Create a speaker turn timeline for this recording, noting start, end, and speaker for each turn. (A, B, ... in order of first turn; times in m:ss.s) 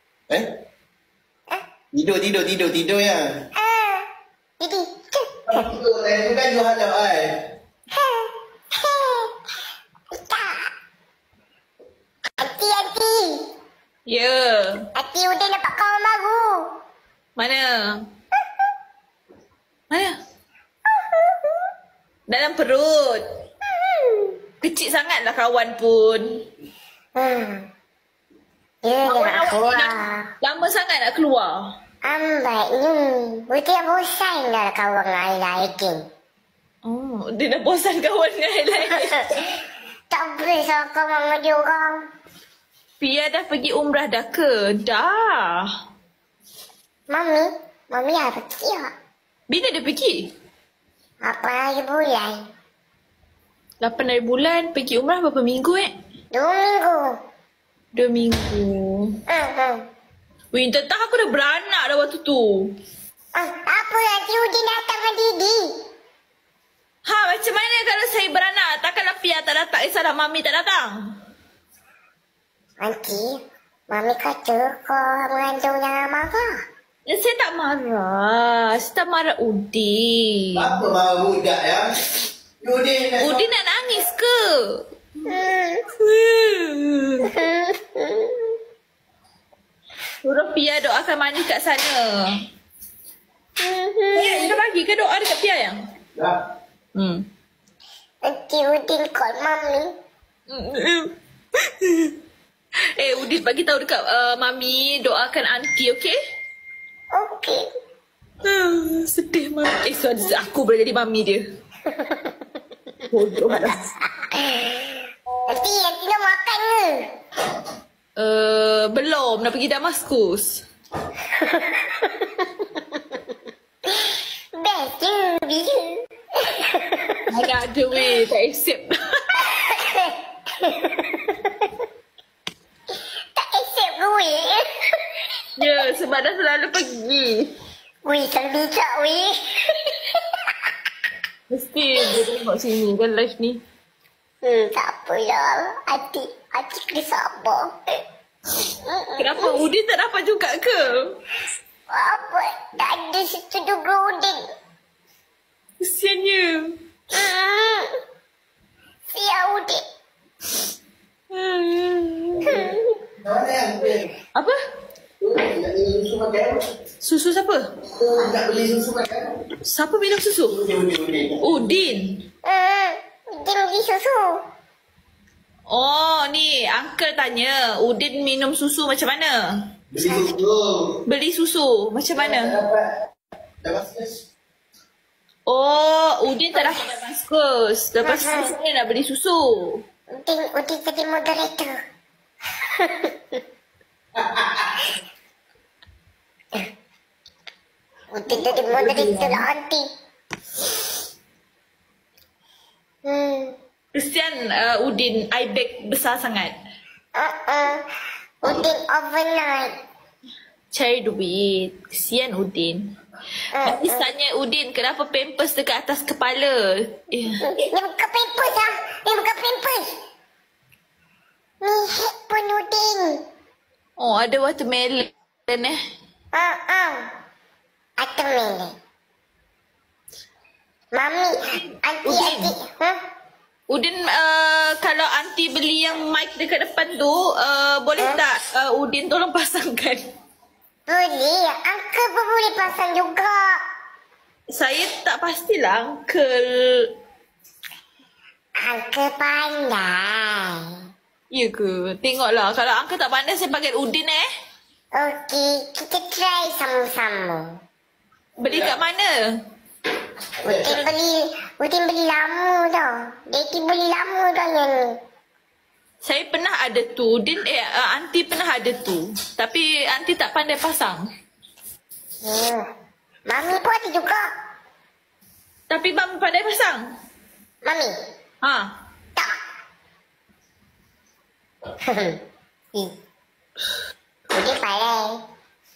0:01.9-0:03.4 A
0:03.6-0:04.0 B
0:04.6-0:05.7 B
0:05.5-0:07.3 A
0:07.9-0:09.3 B
0:10.2-0:10.7 B
0:12.4-0:13.4 B
0:14.1-0:14.8 C
0:14.9-0:16.6 B
0:17.4-0:18.0 C
0:19.9-0:20.2 C
0:21.1-0:21.5 B
0:22.3-0:23.2 C
0:23.8-0:24.4 B
0:24.6-0:26.4 C
0:27.2-0:27.7 B
0:28.8-0:30.2 B
0:29.0-0:31.6 C
0:32.0-0:36.0 B
0:36.8-0:39.4 C
0:40.1-0:42.0 B
0:43.0-0:45.6 C
0:47.1-0:48.9 B
0:49.5-0:50.3 C
0:51.2-0:52.4 B
0:53.8-0:55.9 C
0:56.3-0:57.1 B
0:58.0-0:59.2 C
0:59.3-0:59.8 B
1:00.5-1:02.7 C
1:03.3-1:05.7 B
1:07.0-1:11.0 C
1:12.8-1:13.3 B
1:13.9-1:16.5 B
1:17.1-1:20.7 C
1:20.6-1:21.9 A
1:22.6-1:23.5 A
1:23.2-1:24.8 C
1:25.3-1:25.8 B
1:26.0-1:27.3 C
1:27.3-1:28.4 B
1:30.2-1:32.3 C
1:33.6-1:34.6 B
1:34.1-1:35.8 C
1:36.1-1:36.4 A
1:36.9-1:37.2 C
1:38.2-1:39.9 B
1:40.5-1:41.1 C
1:41.7-1:42.2 C
1:42.9-1:46.2 C
1:47.1-1:47.6 B
1:48.4-1:51.4 C
1:51.9-1:52.3 B
1:53.1-1:53.9 C
1:53.5-1:57.0 B
1:58.2-2:00.6 C
2:01.4-2:02.5 B
2:04.1-2:07.2 B
2:07.3-2:08.9 C
2:09.5-2:11.7 B
2:13.4-2:14.6 B
2:15.6-2:17.5 C
2:18.0-2:19.9 B
2:21.5-2:23.6 C
2:24.4-2:27.8 B
2:28.8-2:29.6 B
2:29.2-2:31.2 C
2:31.9-2:34.4 B
2:35.8-2:36.8 C
2:37.1-2:37.9 B
2:39.1-2:39.8 B
2:41.3-2:42.7 C
2:42.4-2:43.0 B
2:43.2-2:44.1 A
2:45.2-2:46.7 A
2:47.0-2:47.6 C
2:48.0-2:49.3 A
2:49.6-2:50.6 C
2:50.5-2:51.5 A
2:51.4-2:52.2 C
2:52.4-2:54.4 B
2:55.7-2:59.6 C
2:59.9-3:01.0 A
3:00.0-3:00.3 B
3:01.0-3:02.6 C
3:02.1-3:02.9 A
3:03.6-3:04.2 A
3:05.4-3:09.8 C
3:08.0-3:08.5 B
3:10.1-3:11.7 B
3:12.8-3:13.1 B
3:14.2-3:14.9 A
3:18.1-3:19.8 B
3:18.3-3:19.4 C
3:23.0-3:23.5 B
3:23.9-3:26.5 C
3:27.1-3:27.8 B
3:28.4-3:29.7 B
3:30.7-3:32.8 C
3:33.5-3:34.1 B
3:33.6-3:37.4 C
3:37.4-3:39.8 B
3:41.6-3:43.2 B
3:44.0-3:45.8 C
3:46.3-3:47.0 B
3:48.0-3:48.7 B
3:50.9-3:53.0 B
3:51.5-3:52.5 C
3:53.7-4:00.0 C
3:58.0-3:58.2 B
4:00.9-4:03.5 B
4:04.5-4:06.9 C
4:08.6-4:10.6 B
4:11.3-4:14.2 C
4:14.9-4:17.5 B
4:18.4-4:19.3 C
4:20.4-4:20.8 A
4:20.6-4:24.9 B
4:26.0-4:31.0 C
4:32.2-4:32.6 B
4:33.3-4:34.2 B
4:35.7-4:36.9 C
4:37.6-4:37.9 B
4:41.9-4:42.2 B
4:44.3-4:45.1 B